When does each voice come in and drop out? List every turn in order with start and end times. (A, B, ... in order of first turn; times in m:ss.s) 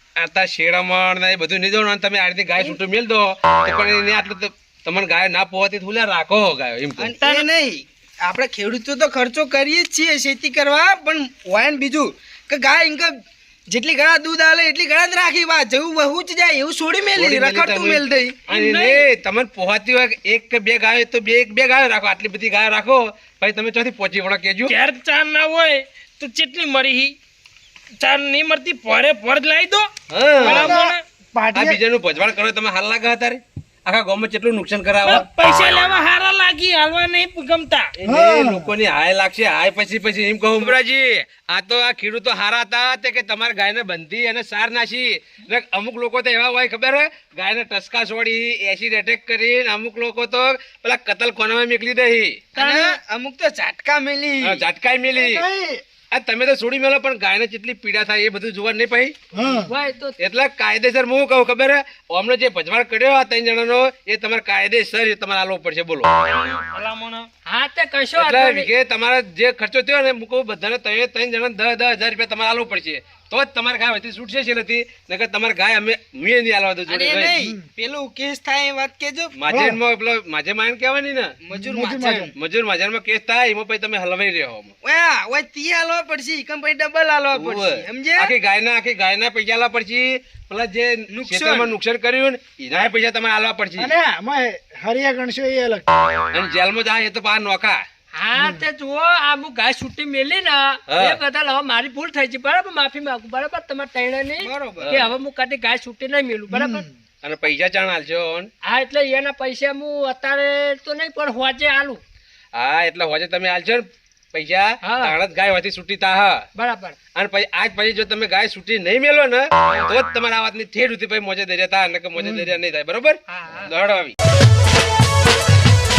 0:00.2-0:07.1 A
0:07.0-0:13.1 B
0:07.2-0:07.5 C
0:13.7-0:18.4 B
0:17.2-0:24.7 A
0:18.5-0:19.1 C
0:24.7-0:27.2 C
0:28.0-0:29.9 C
0:30.1-0:30.8 A
0:30.4-0:31.0 C
0:30.4-0:31.8 D
0:31.5-0:35.3 A
0:35.0-0:37.9 C
0:38.0-0:52.4 A
0:38.0-0:38.7 D
0:52.5-0:54.6 B
0:52.6-0:53.0 C
0:54.4-0:55.4 A
0:55.1-0:55.8 D
0:56.1-0:59.2 A
0:59.3-0:59.7 D
0:59.7-1:00.2 E
1:00.2-1:06.2 A
1:06.3-1:07.3 C
1:07.5-1:08.7 E
1:08.2-1:17.4 A
1:16.9-1:19.4 B
1:17.4-1:17.6 D
1:19.4-1:21.4 A
1:19.5-1:19.8 D
1:21.4-1:22.4 B
1:21.5-1:22.3 D
1:22.4-1:24.7 A
1:24.8-1:28.3 B
1:27.3-1:33.9 A
1:31.1-1:31.8 B
1:33.8-1:35.9 D
1:36.3-1:37.8 A
1:38.2-1:46.8 E
1:38.4-1:38.6 D
1:40.9-1:41.2 A
1:44.4-1:45.0 B
1:44.8-1:45.1 A
1:46.5-1:46.9 D
1:47.2-1:48.5 A
1:48.6-1:52.0 E
1:52.5-1:56.4 A
1:54.8-1:55.2 E
1:56.6-1:57.0 E
1:57.2-2:04.2 A
2:03.3-2:03.7 E